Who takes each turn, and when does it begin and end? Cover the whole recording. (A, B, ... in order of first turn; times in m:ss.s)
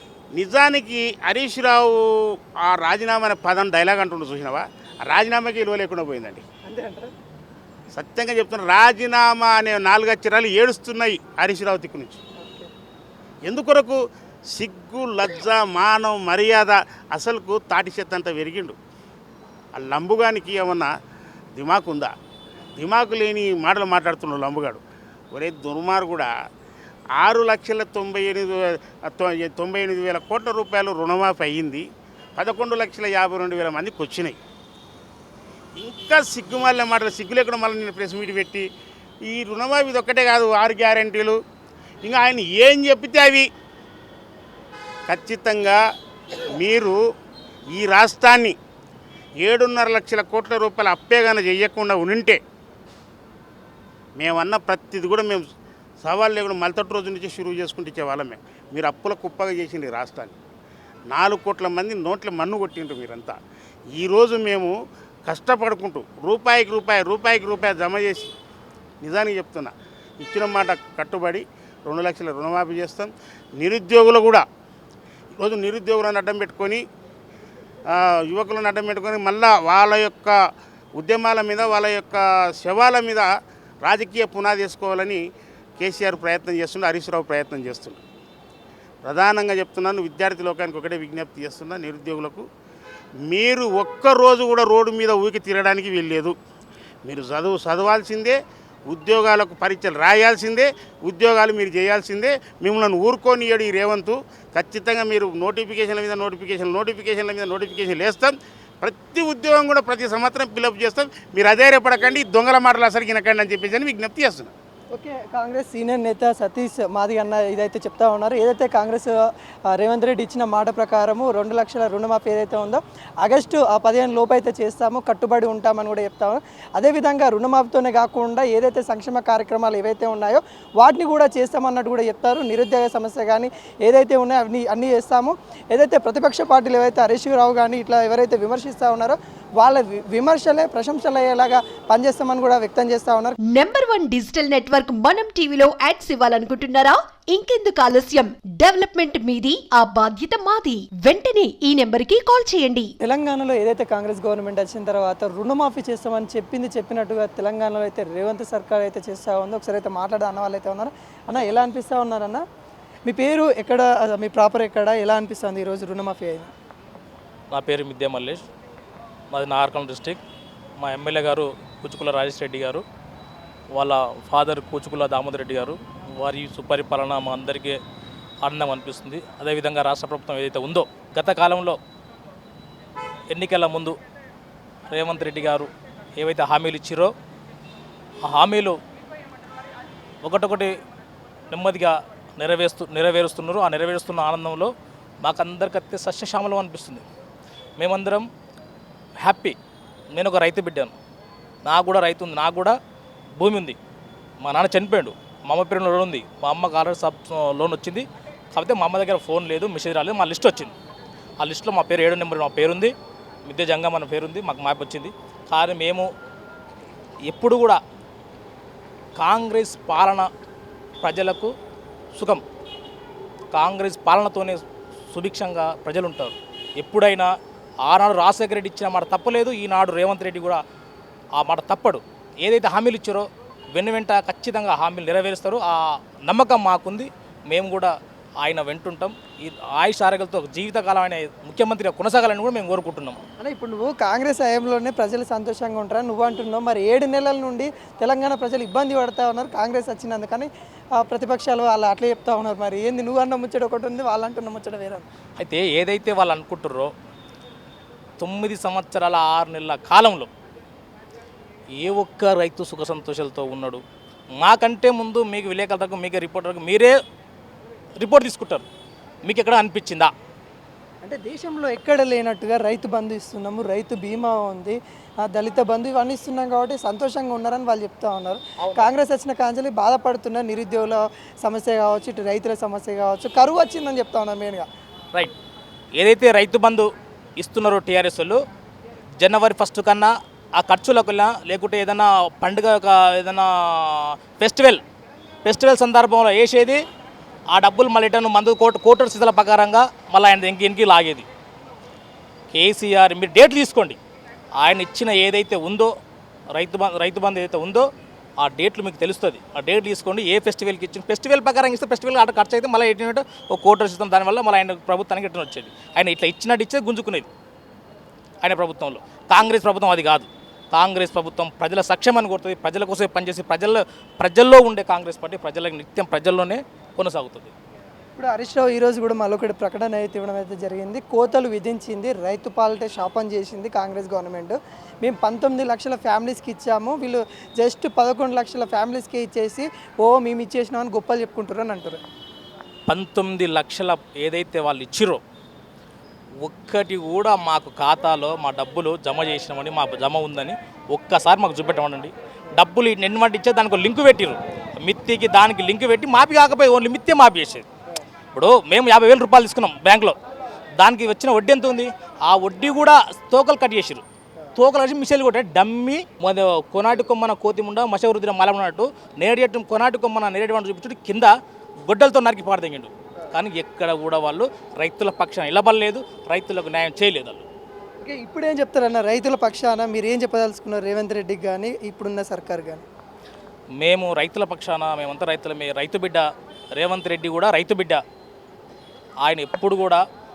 0:00.3-0:02.0 A
0:02.6-0:06.4 A
0:06.7-0:07.1 B
0:07.9-0:12.2 A
0:12.4-0:12.7 B
0:13.4-0:14.0 A
0:14.5-0:18.8 A
0:19.7-0:20.9 A
0:21.6-0:22.1 A
0:22.8-0:24.8 A
0:25.3-0:26.3 A
0:27.2-0:31.8 A
0:32.4-0:34.4 A
0:35.8-0:38.7 A
0:39.3-0:41.4 A
0:42.0-0:43.5 A
0:45.1-0:45.8 A
0:46.5-0:47.0 A
0:47.7-0:48.6 A
0:49.4-0:52.4 A
0:54.2-0:55.4 A
0:56.0-1:00.4 A
1:01.1-1:03.4 A
1:04.0-1:04.7 A
1:05.2-1:08.3 A
1:09.0-1:14.4 A
1:15.4-1:16.8 A
1:18.3-1:20.4 A
1:21.0-1:23.3 A
1:23.8-1:25.2 A
1:25.8-1:28.0 A
1:29.0-1:32.4 A
1:33.3-1:36.4 A
1:37.0-1:38.4 A
1:38.9-1:54.5 A
1:54.9-1:59.2 B
1:59.7-2:23.4 B
2:23.5-2:32.9 C
2:33.0-2:42.4 B
2:43.0-2:46.5 B
2:47.5-2:48.4 D
2:49.3-2:50.2 D
2:50.8-2:52.8 D
2:53.7-2:57.8 D
2:58.4-3:01.8 D
3:03.3-3:04.0 D
3:04.9-3:07.1 D
3:08.3-3:08.8 D
3:10.2-3:10.8 D
3:11.5-3:14.7 D
3:15.2-3:17.0 D
3:17.8-3:18.3 D
3:19.2-3:19.6 D
3:20.1-3:20.9 D
3:21.6-3:22.8 D
3:23.4-3:23.8 D
3:24.4-3:30.7 D
3:31.4-3:32.9 D
3:33.5-3:36.1 D
3:37.2-3:37.8 D
3:39.2-3:40.3 D
3:41.0-3:41.5 D
3:42.1-3:42.4 D
3:43.5-3:47.3 D
3:47.8-3:50.6 D
3:51.4-4:03.2 D
4:03.4-4:15.0 B
4:15.4-4:16.9 D
4:18.2-4:20.3 D
4:21.8-4:23.8 D
4:24.4-4:26.9 D
4:28.0-4:28.6 D
4:29.2-4:30.1 D
4:31.0-4:44.6 B
4:46.0-4:46.9 D
4:47.4-4:48.4 D
4:49.2-4:54.8 D
4:55.4-4:56.8 D
4:57.5-5:01.3 D
5:02.5-5:04.0 D
5:04.6-5:05.9 D
5:06.5-5:07.9 D
5:08.4-5:17.3 D
5:18.4-5:27.5 D
5:28.2-5:42.0 B
5:42.9-5:45.2 D
5:46.4-5:57.7 D
5:58.3-6:00.2 D
6:00.8-6:04.0 D
6:04.6-6:11.3 D
6:11.9-6:17.4 D
6:18.0-6:22.8 B
6:23.8-6:26.2 D
6:26.8-6:28.0 D
6:29.2-6:30.0 D